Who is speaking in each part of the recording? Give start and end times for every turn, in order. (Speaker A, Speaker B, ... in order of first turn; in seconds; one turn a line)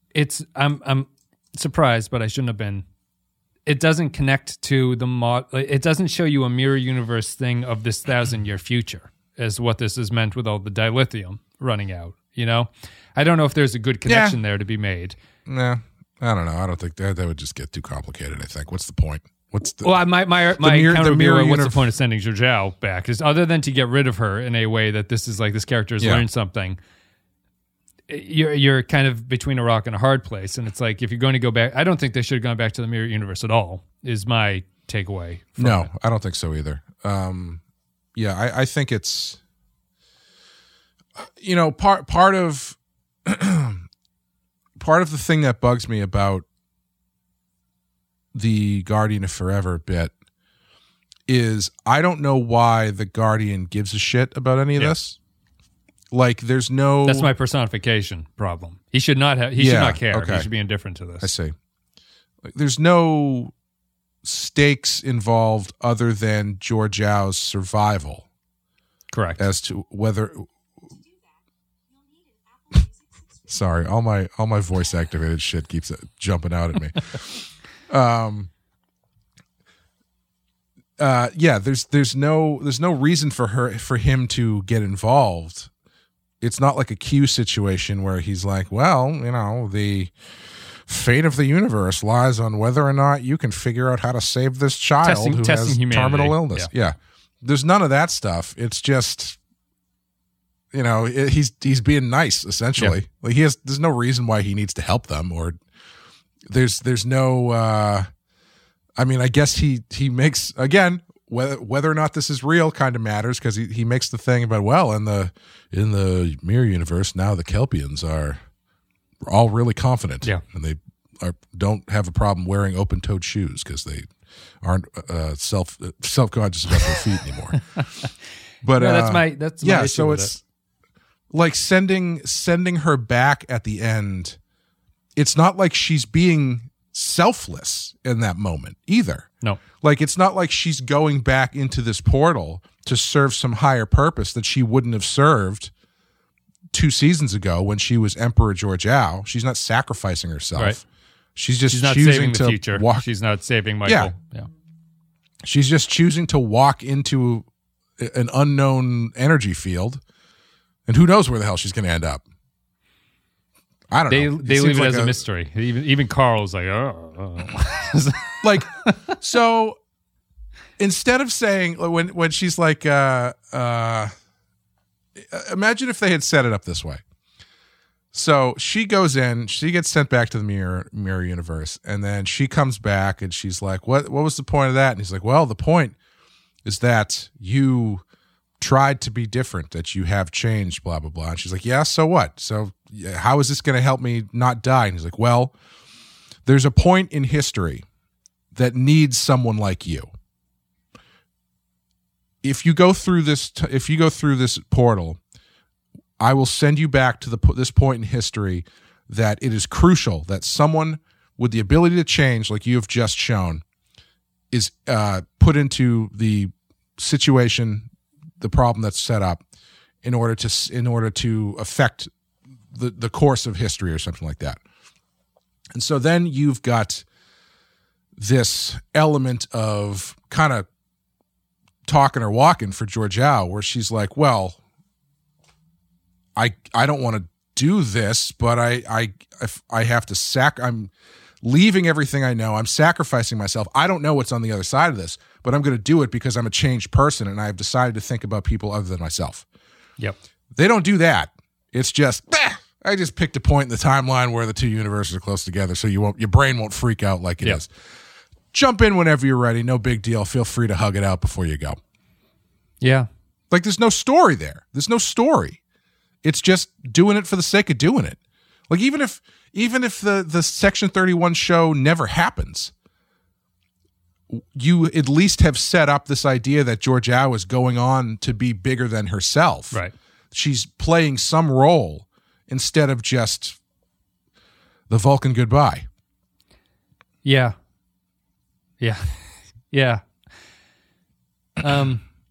Speaker A: 0.1-2.8
Speaker A: 3.6-15.2
Speaker B: 14.1-14.4
Speaker B: 15.4-21.9
Speaker A: 19.8-26.8
Speaker B: 26.0-26.2
Speaker A: 28.1-35.9
Speaker B: 35.6-37.6
Speaker B: 38.1-39.4
Speaker B: 41.2-43.8
Speaker B: 44.8-46.5
Speaker B: 48.3-50.1
Speaker B: 51.3-55.2
Speaker B: 56.1-57.3
Speaker A: 57.0-61.3
Speaker B: 59.5-60.5
Speaker B: 61.2-61.5
Speaker B: 62.4-63.5
Speaker B: 64.2-68.2
Speaker A: 69.1-69.5
Speaker B: 69.4-70.5
Speaker B: 73.4-78.5
Speaker B: 81.0-85.7
Speaker B: 86.4-99.4
Speaker A: 95.0-96.7
Speaker B: 100.7-105.6
Speaker B: 106.4-108.1
Speaker B: 109.0-118.4
Speaker B: 119.2-124.1
Speaker B: 124.6-127.6
Speaker B: 128.6-130.4
Speaker A: 128.8-130.3
Speaker B: 131.3-134.4
Speaker B: 135.2-139.3
Speaker B: 139.8-145.7
Speaker B: 146.7-150.8
Speaker B: 151.3-153.1
Speaker A: 151.7-154.5
Speaker B: 153.8-154.1
Speaker B: 155.4-157.4
Speaker B: 158.0-160.0
Speaker B: 160.9-162.2
Speaker B: 163.9-165.2
Speaker A: 164.1-168.9
Speaker B: 168.4-169.8
Speaker B: 170.8-174.1
Speaker B: 175.2-177.0
Speaker B: 178.1-185.9
Speaker B: 186.6-188.0
Speaker B: 188.6-195.5
Speaker B: 196.4-197.8
Speaker B: 198.5-200.1
Speaker B: 202.4-205.2
Speaker B: 206.2-213.6
Speaker B: 214.5-217.9
Speaker B: 218.4-219.4
Speaker B: 220.0-222.1
Speaker B: 222.7-224.6
Speaker B: 225.7-227.0
Speaker B: 228.2-230.7
Speaker B: 231.8-234.6
Speaker B: 236.3-240.9
Speaker B: 241.4-249.4
Speaker B: 250.5-257.7
Speaker B: 258.5-261.8
Speaker A: 262.8-263.1
Speaker B: 263.5-265.6
Speaker B: 266.2-272.7
Speaker B: 274.3-279.8
Speaker B: 280.3-283.6
Speaker B: 284.9-285.9
Speaker A: 287.2-287.5
Speaker A: 288.8-290.0
Speaker A: 291.6-292.0